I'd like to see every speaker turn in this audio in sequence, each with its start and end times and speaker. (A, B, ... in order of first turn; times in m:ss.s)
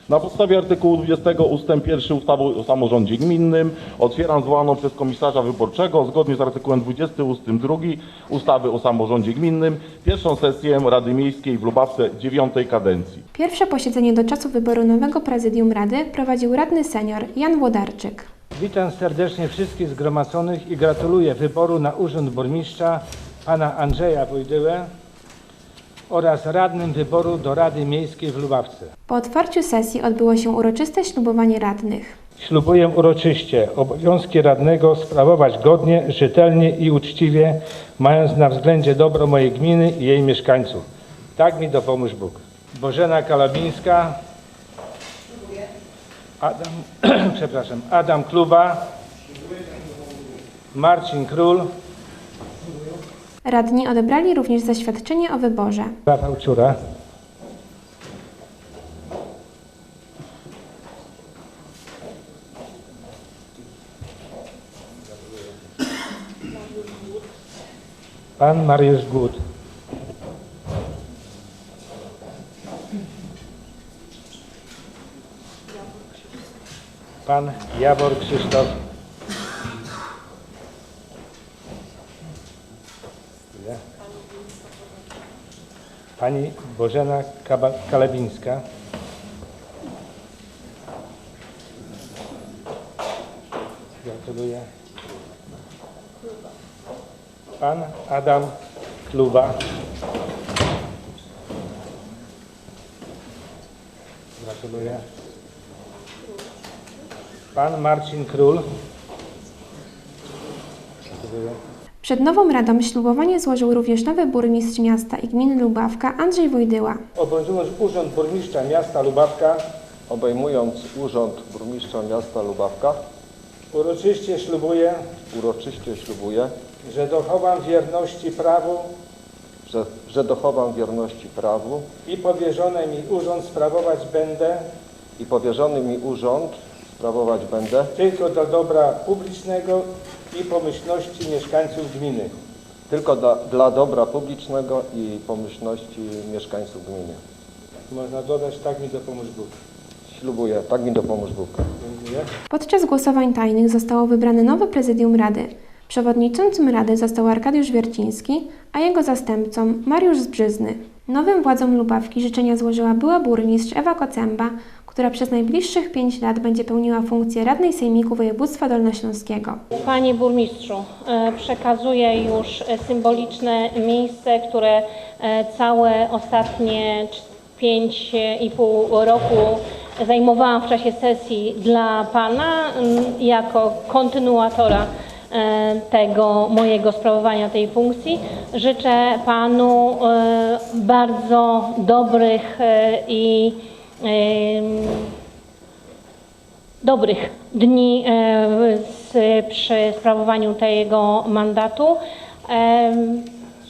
0:00.1-0:13.2 A
0:13.3-0:18.3 B
0:18.6-0:24.9 C
0:26.1-0:28.9 C
0:29.1-0:32.2 B
0:32.4-0:40.8 C
0:41.4-0:44.2 C
0:46.4-0:48.8 C
0:50.7-0:51.7 C
0:53.4-0:55.9 B
0:56.1-0:56.7 C
1:08.4-1:09.4 C
1:17.2-1:18.7 C
1:23.5-1:23.8 C
1:26.2-1:28.6 C
1:34.0-1:34.6 C
1:37.6-1:38.5 C
1:39.1-1:39.5 C
1:44.4-1:45.0 C
1:47.5-1:48.6 C
1:51.1-1:51.6 C
1:52.0-1:57.0 B
1:57.2-1:59.6 C
2:00.1-2:03.0 D
2:03.7-2:05.0 C
2:05.3-2:06.5 D
2:06.8-2:08.9 C
2:09.6-2:11.8 D
2:12.1-2:14.6 C
2:15.2-2:17.9 D
2:18.0-2:22.3 C
2:22.9-2:27.2 D
2:27.9-2:29.5 C
2:30.1-2:31.6 D
2:31.8-2:32.3 C
2:32.5-2:49.6 B
2:49.7-3:15.1 E
3:16.8-3:23.3 E